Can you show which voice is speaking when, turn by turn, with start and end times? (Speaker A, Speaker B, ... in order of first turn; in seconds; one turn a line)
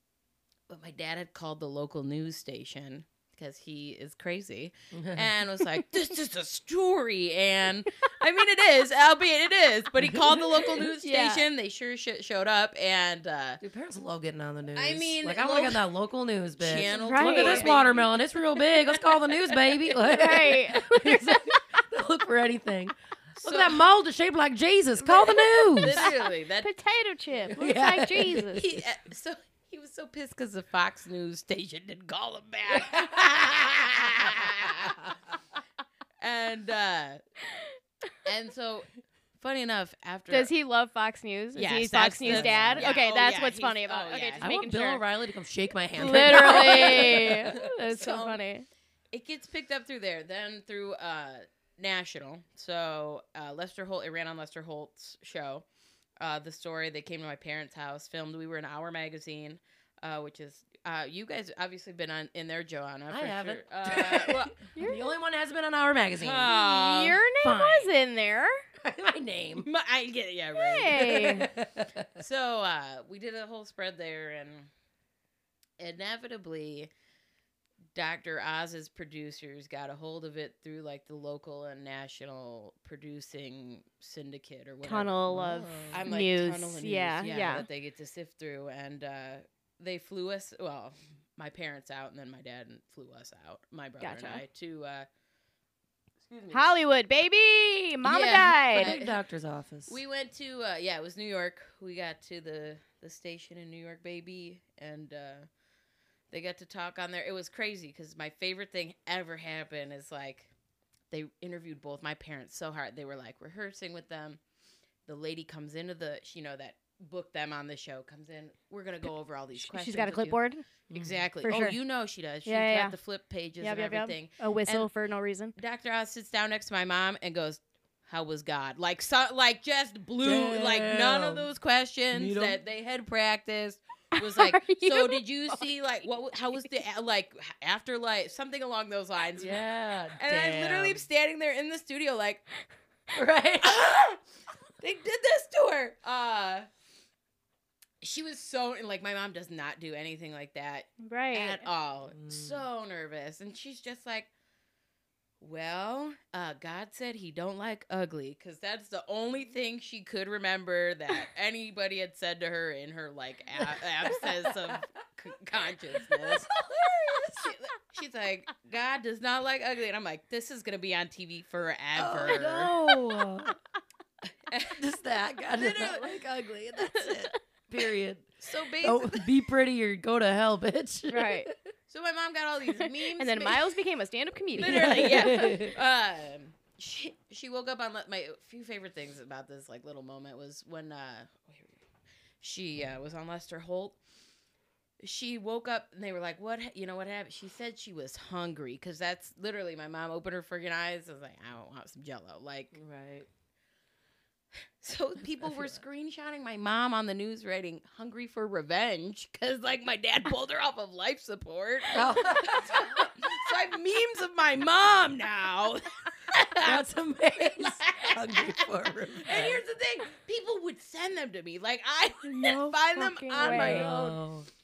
Speaker A: 0.7-13.6
Speaker B: 4.9-5.3
Speaker C: 11.0-11.4
Speaker B: 13.6-26.1
Speaker A: 14.7-15.8
Speaker A: 16.6-18.2
Speaker C: 16.9-17.7
Speaker C: 20.0-21.4
Speaker A: 23.4-23.8
Speaker C: 25.0-28.6
Speaker A: 25.8-26.7
Speaker B: 27.5-28.9
Speaker A: 28.6-35.1
Speaker A: 36.2-37.2
Speaker A: 38.2-40.5
Speaker C: 40.3-45.0
Speaker A: 41.5-44.5
Speaker B: 42.2-42.9
Speaker B: 44.4-47.6
Speaker C: 46.0-48.7
Speaker A: 46.1-48.4
Speaker A: 49.1-55.6
Speaker A: 56.2-64.7
Speaker B: 63.1-66.5
Speaker C: 64.7-65.0
Speaker A: 66.2-67.2
Speaker C: 66.5-68.6
Speaker B: 67.4-67.9
Speaker B: 68.8-69.7
Speaker A: 69.6-71.4
Speaker C: 70.5-71.5
Speaker B: 71.0-72.2
Speaker A: 72.2-74.7
Speaker A: 75.8-76.9
Speaker A: 77.9-85.2
Speaker C: 84.8-87.7
Speaker B: 85.3-86.0
Speaker A: 85.9-95.1
Speaker C: 94.0-94.4
Speaker A: 96.2-96.7
Speaker C: 96.5-98.9
Speaker A: 98.0-99.2
Speaker B: 98.7-100.0
Speaker A: 99.9-105.5
Speaker A: 106.3-110.5
Speaker A: 111.1-114.4
Speaker A: 115.0-124.9
Speaker C: 119.5-120.6
Speaker B: 120.9-121.2
Speaker C: 121.4-121.8
Speaker C: 122.4-122.9
Speaker C: 123.6-125.5
Speaker A: 125.5-142.4
Speaker B: 130.2-131.5
Speaker B: 132.1-132.6
Speaker C: 134.1-135.8
Speaker B: 139.4-141.0
Speaker B: 143.1-144.0
Speaker A: 143.6-144.2
Speaker A: 144.8-146.7
Speaker A: 148.0-154.3
Speaker C: 151.0-151.6
Speaker B: 152.1-152.6
Speaker A: 155.4-166.5
Speaker B: 163.6-164.8
Speaker B: 165.9-167.5
Speaker A: 167.2-172.9
Speaker B: 171.9-173.6
Speaker A: 174.5-174.8
Speaker B: 174.7-181.7
Speaker A: 175.5-176.2
Speaker A: 178.4-179.4
Speaker C: 181.1-181.5
Speaker A: 181.9-183.7
Speaker C: 182.8-185.6
Speaker A: 184.6-191.8
Speaker B: 184.6-185.8
Speaker A: 192.4-194.0
Speaker A: 195.0-202.8
Speaker B: 202.7-203.3
Speaker A: 204.8-224.2
Speaker B: 205.4-205.8
Speaker B: 211.9-213.1
Speaker B: 216.6-219.6
Speaker C: 222.2-223.9
Speaker B: 223.4-224.5